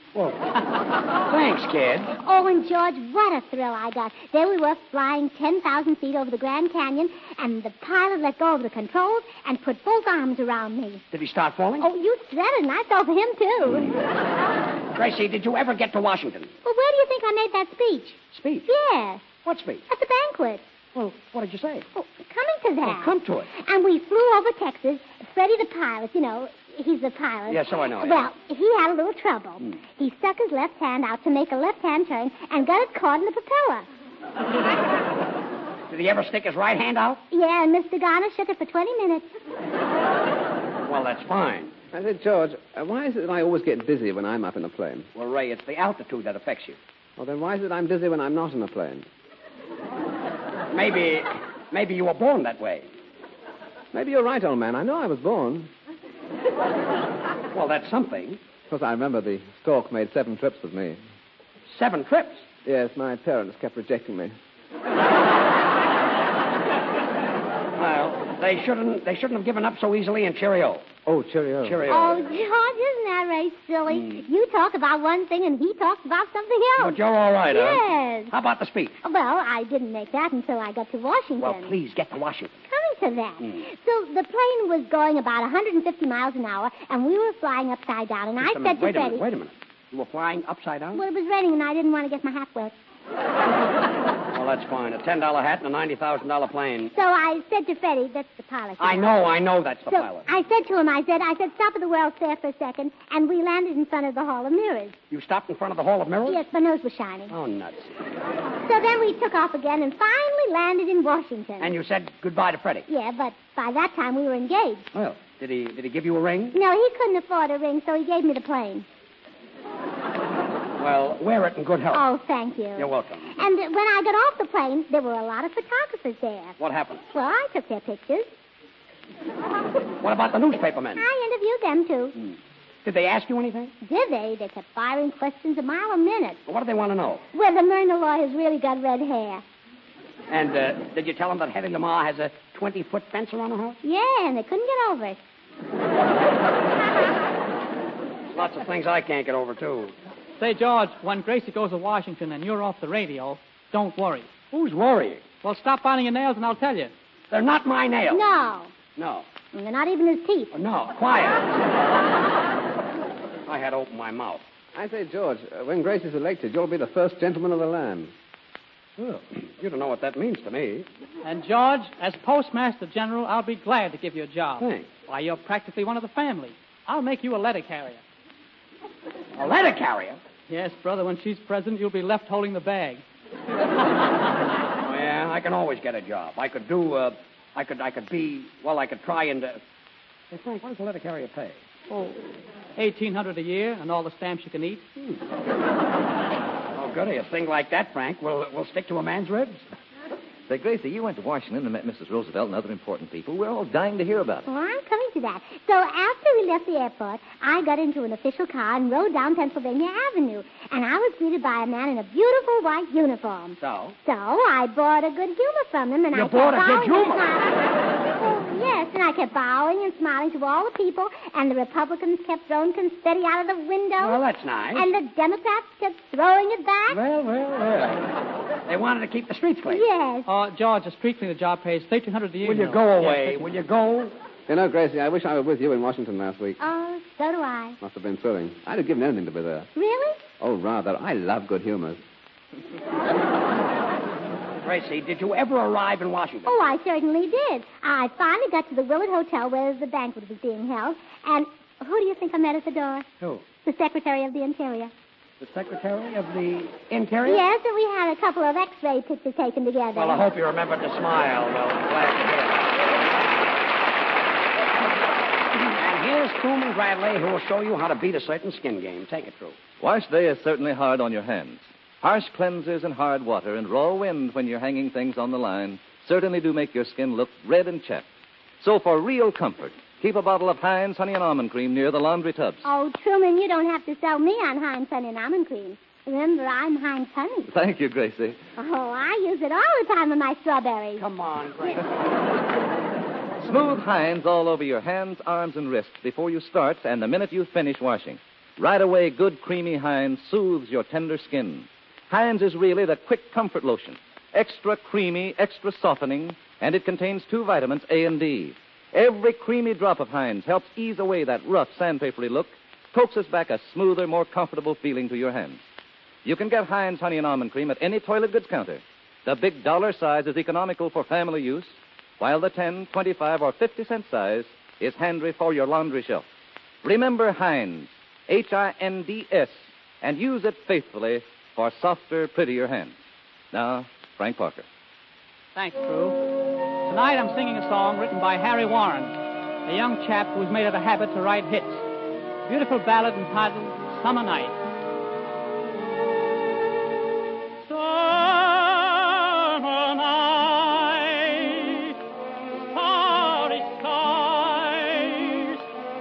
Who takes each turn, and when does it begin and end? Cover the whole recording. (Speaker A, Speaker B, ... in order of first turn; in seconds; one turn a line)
Speaker A: 0.1-0.5
Speaker A: 1.2-2.1
Speaker B: 2.2-11.0
Speaker A: 11.1-11.9
Speaker B: 11.8-13.9
Speaker A: 14.9-16.5
Speaker B: 16.6-19.2
Speaker A: 18.3-18.7
Speaker A: 19.4-19.8
Speaker B: 19.9-20.6
Speaker A: 20.9-21.9
Speaker B: 21.9-33.9
Speaker A: 22.8-23.5
Speaker A: 27.5-28.2
Speaker A: 35.9-37.2
Speaker B: 37.3-39.3
Speaker A: 40.8-41.7
Speaker C: 41.9-45.1
Speaker A: 45.1-46.8
Speaker C: 47.2-49.1
Speaker A: 50.7-52.9
Speaker C: 53.9-55.7
Speaker A: 57.5-58.4
Speaker C: 58.7-61.0
Speaker A: 61.7-62.5
Speaker C: 62.6-64.3
Speaker A: 67.8-70.9
Speaker C: 71.1-71.8
Speaker A: 71.6-72.3
Speaker B: 71.9-77.0
Speaker A: 73.9-74.2
Speaker A: 76.8-79.0
Speaker B: 77.5-78.3
Speaker B: 79.0-81.7
Speaker A: 81.4-82.6
Speaker B: 82.7-89.2
Speaker A: 88.4-91.0
Speaker B: 90.9-92.8
Speaker A: 94.3-96.9
Speaker B: 96.9-99.4
Speaker A: 98.8-100.2
Speaker B: 99.9-105.0
Speaker A: 105.1-106.4
Speaker B: 106.2-107.3
Speaker A: 107.3-107.9
Speaker B: 108.6-111.8
Speaker A: 111.6-112.9
Speaker B: 112.9-114.9
Speaker A: 114.9-116.6
Speaker B: 116.5-118.9
Speaker A: 120.8-122.0
Speaker B: 121.9-126.6
Speaker A: 122.8-123.3
Speaker A: 126.6-127.0
Speaker B: 127.1-128.3
Speaker A: 130.0-131.0
Speaker B: 131.0-132.2
Speaker A: 132.8-133.7
Speaker B: 133.8-136.4
Speaker A: 136.5-137.2
Speaker B: 137.3-139.4
Speaker A: 140.3-143.8
Speaker B: 143.8-145.2
Speaker A: 148.3-149.9
Speaker D: 150.4-154.3
Speaker A: 154.5-155.2
Speaker D: 155.4-156.9
Speaker A: 157.3-158.2
Speaker B: 158.1-158.7
Speaker A: 158.9-159.2
Speaker B: 159.5-160.5
Speaker A: 160.5-161.9
Speaker A: 163.5-164.4
Speaker C: 164.8-168.1
Speaker A: 169.0-170.9
Speaker D: 171.2-178.0
Speaker A: 174.6-174.9
Speaker A: 179.4-180.2
Speaker D: 180.5-183.0
Speaker A: 184.8-189.6
Speaker A: 190.3-191.6
Speaker D: 191.9-192.2
Speaker D: 192.8-194.8
Speaker A: 196.8-199.6
Speaker E: 200.5-204.4
Speaker B: 204.5-224.2
Speaker A: 213.6-213.9
Speaker A: 216.1-217.3
Speaker A: 224.0-224.9
Speaker B: 224.8-227.0
Speaker A: 226.9-228.1
Speaker A: 228.7-229.8
Speaker B: 229.7-230.3
Speaker D: 230.2-233.4
Speaker A: 232.4-234.1
Speaker C: 234.5-236.6
Speaker B: 236.6-237.8
Speaker C: 237.8-239.7
Speaker B: 239.8-240.2
Speaker C: 240.4-242.0
Speaker A: 244.6-246.5
Speaker B: 246.4-253.1
Speaker B: 253.6-254.9
Speaker A: 255.4-257.4
Speaker B: 257.2-260.2
Speaker A: 259.9-262.8
Speaker A: 265.6-269.6
Speaker E: 269.8-278.1
Speaker E: 278.6-282.6
Speaker B: 282.6-287.5
Speaker E: 287.5-288.4
Speaker B: 288.6-291.1
Speaker A: 291.0-291.9
Speaker E: 293.4-315.6
Speaker E: 316.2-326.2
Speaker E: 326.8-332.9
Speaker E: 333.5-334.6
Speaker D: 335.6-336.2
Speaker D: 336.9-341.9
Speaker D: 342.5-344.6
Speaker D: 347.6-351.9
Speaker D: 352.7-355.6